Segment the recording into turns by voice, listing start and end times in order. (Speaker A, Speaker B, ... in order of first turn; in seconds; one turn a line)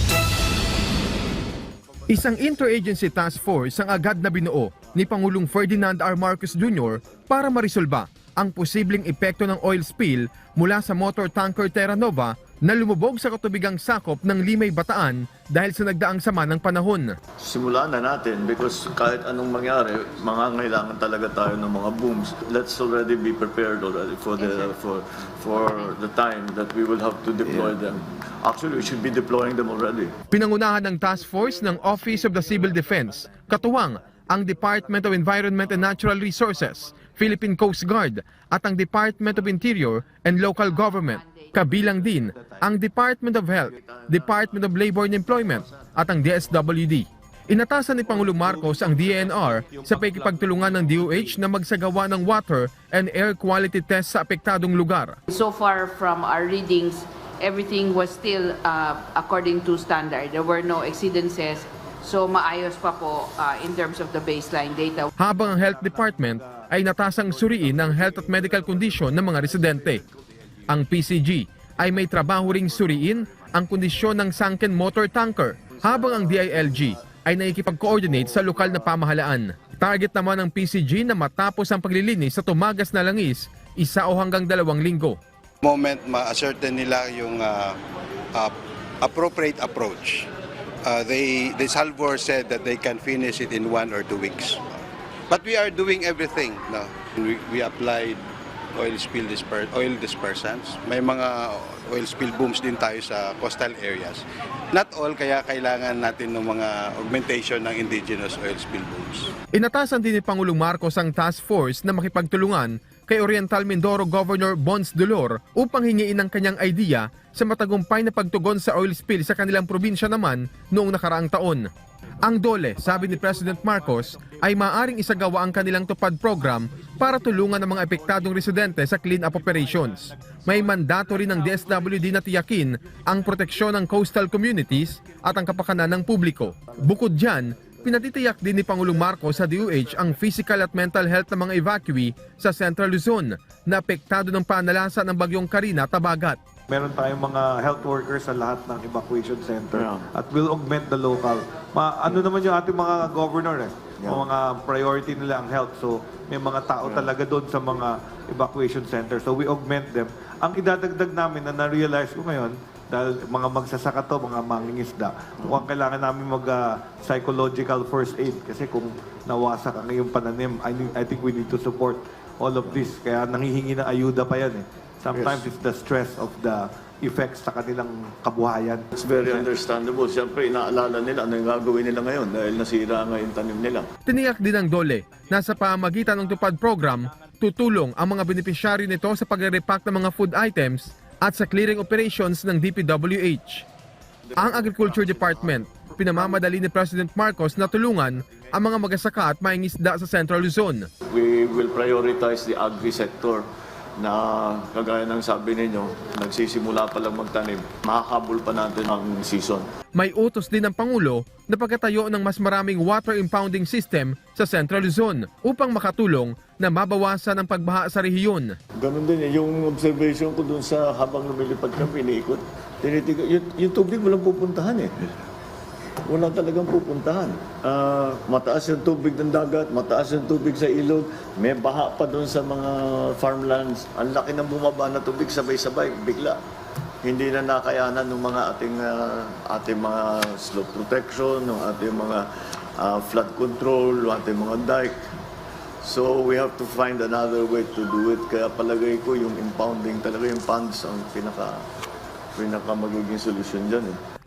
Speaker A: 2.1-17.1
Speaker B: 17.4-30.2
Speaker A: 30.3-55.2
Speaker C: 40.6-42.1
Speaker B: 43.8-44.5
Speaker B: 45.5-46.0
Speaker D: 48.1-51.4
Speaker C: 55.3-65.1
Speaker A: 65.2-70.0
Speaker D: 65.3-66.7
Speaker D: 67.3-69.5
Speaker A: 70.7-85.2
Speaker E: 85.6-87.8
Speaker E: 88.3-90.3
Speaker E: 90.8-94.6
Speaker E: 95.3-98.2
Speaker E: 98.8-109.3
Speaker A: 109.5-121.7
Speaker A: 122.2-146.4
Speaker D: 146.7-179.5
Speaker B: 149.7-150.1
Speaker B: 154.0-154.3
Speaker B: 175.1-175.5
Speaker B: 178.9-183.9
Speaker A: 184.1-193.7
Speaker B: 194.3-195.6
Speaker A: 194.4-200.9
Speaker B: 201.1-203.5
Speaker B: 204.0-209.7
Speaker A: 209.9-218.5
Speaker B: 218.8-225.2
Speaker B: 226.1-236.4
Speaker B: 237.0-245.0
Speaker B: 245.8-251.7
Speaker B: 252.3-254.0